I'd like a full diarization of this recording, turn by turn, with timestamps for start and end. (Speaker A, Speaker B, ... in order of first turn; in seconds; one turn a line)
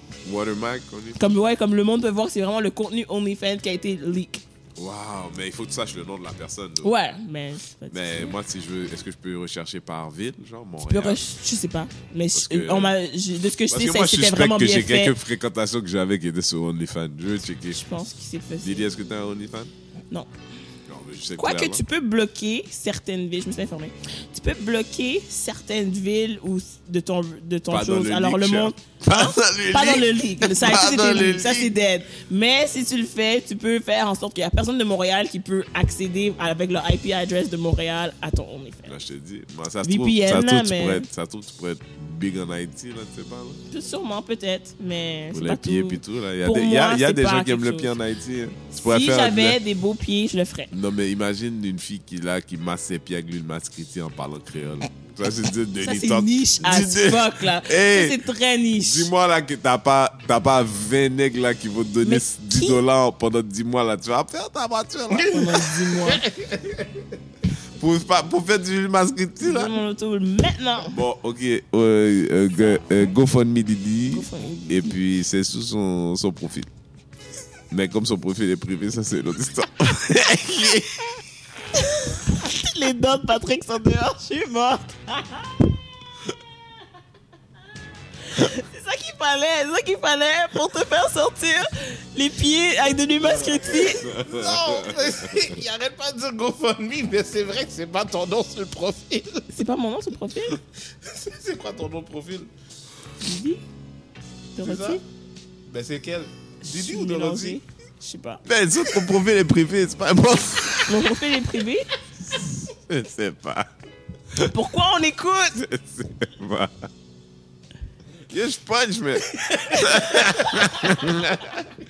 Speaker A: 0.2-1.3
Speaker B: 1.2-4.4
Speaker A: 4.8-6.9
Speaker B: 6.8-8.4
Speaker A: 7.9-11.2
Speaker B: 10.9-15.2
Speaker A: 12.3-12.9
Speaker A: 13.7-17.8
Speaker B: 17.7-18.9
Speaker A: 18.6-19.7
Speaker A: 20.9-21.8
Speaker B: 21.4-39.0
Speaker A: 27.7-31.7
Speaker A: 38.9-43.6
Speaker B: 39.9-41.1
Speaker B: 43.7-47.9
Speaker A: 45.3-49.6
Speaker B: 48.7-50.7
Speaker A: 50.7-58.2
Speaker B: 55.8-59.1
Speaker A: 58.8-65.4
Speaker B: 62.0-62.8
Speaker C: 65.1-67.2
Speaker B: 65.2-66.3
Speaker A: 67.8-69.8
Speaker B: 69.4-71.0
Speaker A: 70.9-76.7
Speaker B: 74.1-75.0
Speaker A: 77.7-81.1
Speaker B: 81.7-85.6
Speaker B: 88.3-94.1
Speaker C: 93.3-99.5
Speaker A: 93.7-95.5
Speaker B: 99.5-100.6
Speaker C: 100.9-102.5
Speaker B: 103.2-103.6
Speaker B: 104.5-105.0
Speaker C: 104.6-105.0
Speaker C: 105.7-107.6
Speaker B: 106.6-108.4
Speaker A: 108.5-111.1
Speaker B: 110.9-111.9
Speaker A: 112.3-113.7
Speaker B: 114.4-115.6
Speaker A: 115.5-116.9
Speaker A: 118.3-121.7
Speaker B: 119.7-120.7